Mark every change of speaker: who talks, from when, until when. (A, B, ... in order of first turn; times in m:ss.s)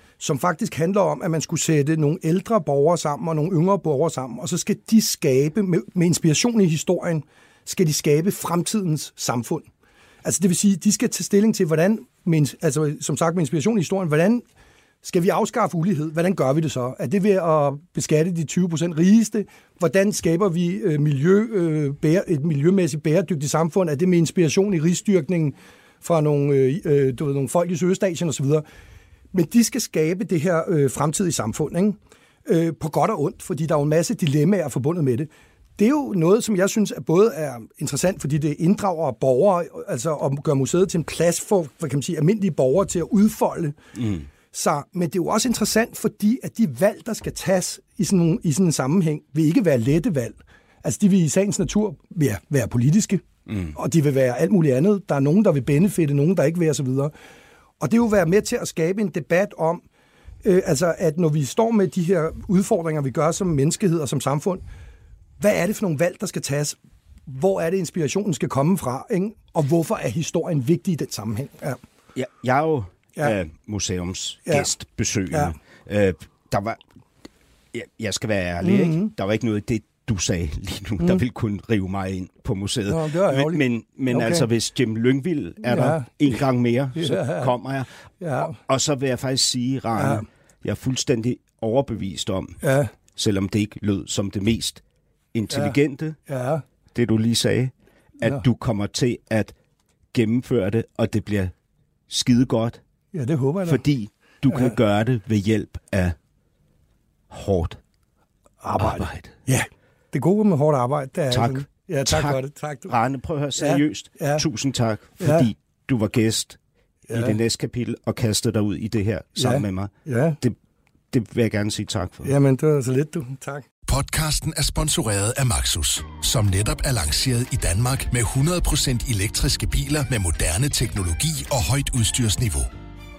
0:00.2-0:09.7 A
0:10.2-0:14.4 A
0:15.0-0:28.6 A
0:29.3-0:43.8 A
0:44.0-0:44.2 B
0:44.5-0:57.1 A
0:53.5-0:53.7 B
0:57.8-0:59.8 A
1:00.4-1:04.6 A
1:05.4-1:11.8 A
1:12.1-1:16.8 B
1:17.7-1:27.9 B
1:18.6-1:19.1 A
1:22.9-1:24.5 A
1:25.6-1:26.1 A
1:26.9-1:27.5 A
1:28.2-1:28.6 A
1:28.4-1:32.6 B
1:29.9-1:30.2 A
1:32.6-1:32.9 A
1:33.1-1:34.8 B
1:35.3-1:36.2 B
1:35.5-1:35.8 A
1:36.3-1:36.6 A
1:36.9-1:39.5 B
1:40.1-1:41.5 B
1:42.1-1:42.8 B
1:43.1-1:43.8 A
1:43.6-1:46.2 B
1:44.5-1:44.8 A
1:47.3-1:47.8 B
1:48.6-1:52.9 A
1:48.8-1:49.3 B
1:51.3-1:56.6 B
1:53.6-1:54.4 A
1:55.2-1:55.5 A
1:57.1-1:57.4 A
1:57.1-2:00.6 B
1:59.4-2:00.4 A
2:01.1-2:02.3 B
2:02.2-2:03.6 A
2:03.9-2:12.7 C